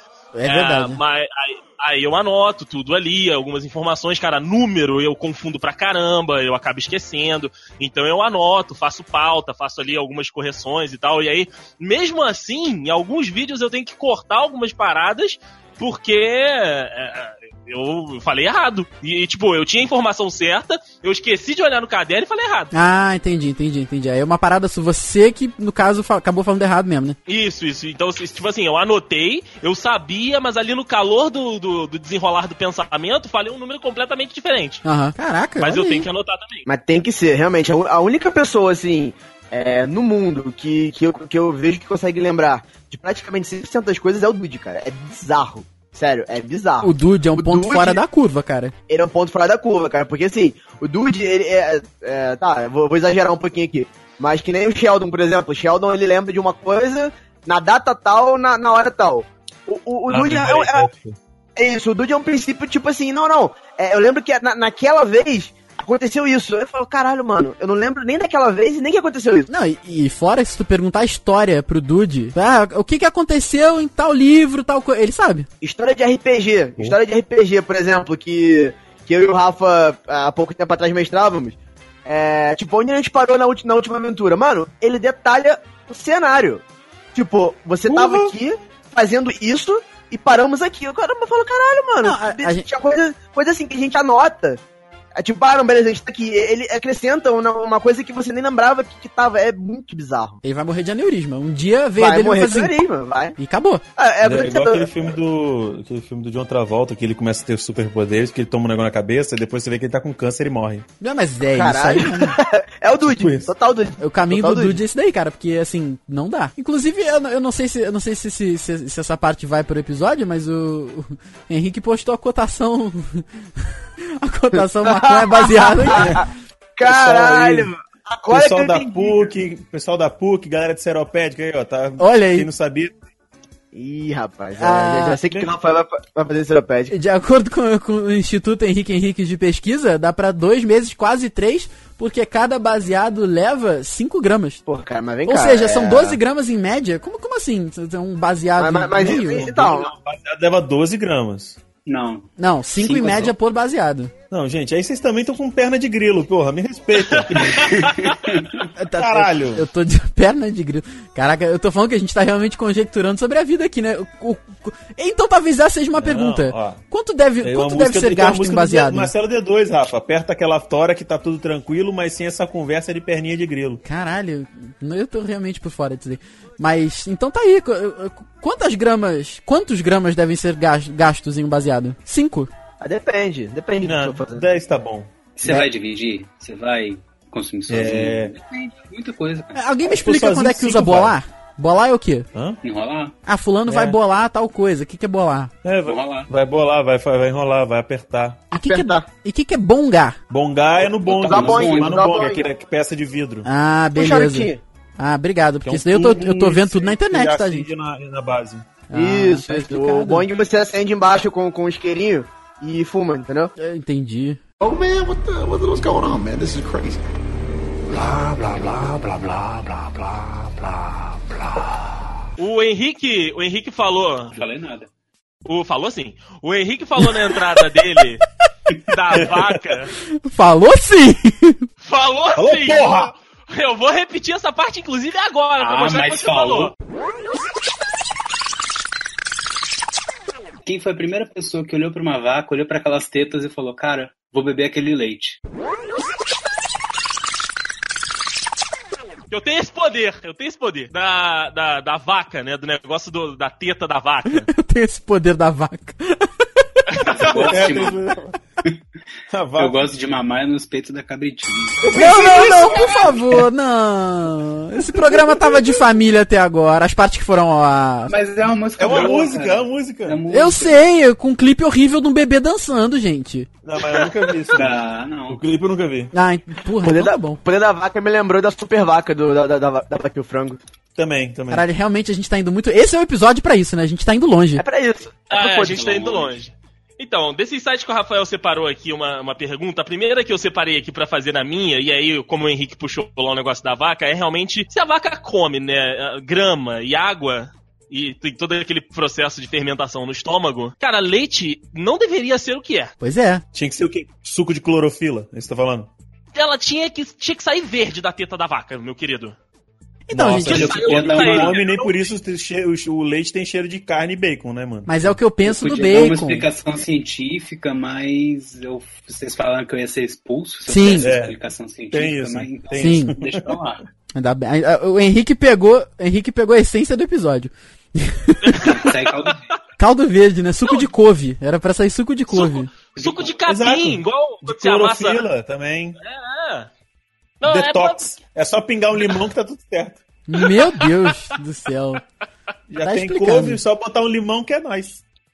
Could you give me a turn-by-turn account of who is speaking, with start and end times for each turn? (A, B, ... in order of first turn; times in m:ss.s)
0:00.4-0:01.0 A
0:00.4-0:22.7 B
0:22.7-0:27.2 A
0:27.3-0:34.8 B
0:34.8-0:36.1 A
0:35.6-0:36.6 B
0:36.7-0:48.0 C
0:46.8-0:48.7 A
0:48.9-1:00.9 C
1:00.1-1:01.2 D
1:01.6-1:09.5 C
1:09.5-1:15.5 A
1:15.6-1:26.6 C
1:27.1-1:34.6 C
1:27.9-1:28.3 D
1:32.0-1:32.7 A
1:35.2-1:40.4 C
1:40.4-1:42.7 A
1:42.0-1:43.4 C
1:43.4-1:43.8 A
1:44.0-1:44.9 C
1:44.2-1:50.9 D
1:51.0-1:52.4 A
1:51.5-1:54.8 C
1:53.1-1:53.5 D
1:54.0-2:03.3 A
2:04.2-2:06.2 A
2:04.8-2:09.3 C
2:05.9-2:06.2 D
2:06.8-2:07.7 D
2:08.3-2:13.0 D
2:12.0-2:12.5 A
2:13.7-2:16.9 C
2:14.6-2:15.2 A
2:16.9-2:24.6 A
2:24.7-2:26.2 C
2:25.3-2:29.5 A
2:28.6-2:29.9 C
2:29.0-2:31.6 D
2:31.9-2:33.3 E
2:32.4-2:34.1 A
2:34.3-2:37.9 D
2:37.1-2:38.1 B
2:37.5-2:38.7 E
2:38.8-2:49.1 A
2:39.0-2:39.6 D
2:46.0-2:46.8 D
2:47.4-2:53.8 D
2:53.8-3:02.5 A
3:02.8-3:04.4 C
3:03.8-3:05.1 D
3:05.4-3:09.6 E
3:07.7-3:08.3 D
3:09.5-3:12.3 A
3:09.8-3:11.2 D
3:12.3-3:12.6 D
3:12.6-3:13.1 E
3:13.3-3:15.5 A
3:13.7-3:14.0 D
3:15.6-3:18.4 D
3:15.9-3:16.3 E
3:18.5-3:20.2 A
3:18.6-3:19.1 C
3:20.3-3:23.5 D
3:21.0-3:22.1 E
3:21.1-3:22.5 C
3:23.4-3:27.7 A
3:24.0-3:24.6 C
3:25.6-3:28.7 D
3:28.9-3:30.3 A
3:28.9-3:33.5 C
3:33.6-3:34.4 A
3:34.6-3:37.1 F
3:37.9-3:41.7 F
3:42.4-3:44.4 B
3:44.3-3:44.9 E
3:45.5-3:48.2 B
3:48.9-3:49.9 B
3:49.1-3:49.5 D
3:50.1-3:51.7 A
3:51.8-3:56.7 B
3:52.4-3:53.1 D
3:55.6-3:56.7 E
4:00.6-4:05.4 E
4:09.3-4:14.5 B
4:14.5-4:16.8 A
4:16.9-4:17.5 B
4:17.0-4:18.0 E
4:17.2-4:18.4 D
4:19.3-4:19.9 D
4:19.6-4:23.4 E
4:21.9-4:22.9 D
4:21.9-4:28.1 A
4:25.1-4:25.6 D
4:28.1-4:30.8 E
4:28.8-4:30.2 D
4:30.3-4:33.5 A
4:33.6-4:36.1 D
4:34.5-4:35.4 E
4:36.1-4:37.4 A
4:36.8-4:40.6 C
4:41.0-4:41.7 D
4:41.5-4:44.6 A
4:44.6-4:46.2 C
4:45.3-5:02.9 B
5:03.0-5:03.4 A
5:03.5-5:05.9 D
5:06.4-5:09.4 B
5:10.1-5:10.7 A
5:10.1-5:15.2 D
5:10.5-5:11.8 E
5:10.5-5:12.0 B
5:14.9-5:16.5 A
5:15.4-5:23.8 E
5:20.7-5:21.1 A
5:21.0-5:21.4 D
5:21.9-5:23.6 D
5:22.8-5:23.1 A
5:24.2-5:28.8 A
5:28.4-5:28.9 B
5:28.6-5:29.5 E
5:29.8-5:32.7 A
5:32.3-5:35.3 B
5:33.0-5:33.4 E
5:33.5-5:36.0 D
5:36.0-5:36.7 B
5:37.4-5:38.0 B
5:37.5-5:40.0 D
5:40.3-5:42.0 A
5:42.7-5:45.0 D
5:42.8-5:43.6 A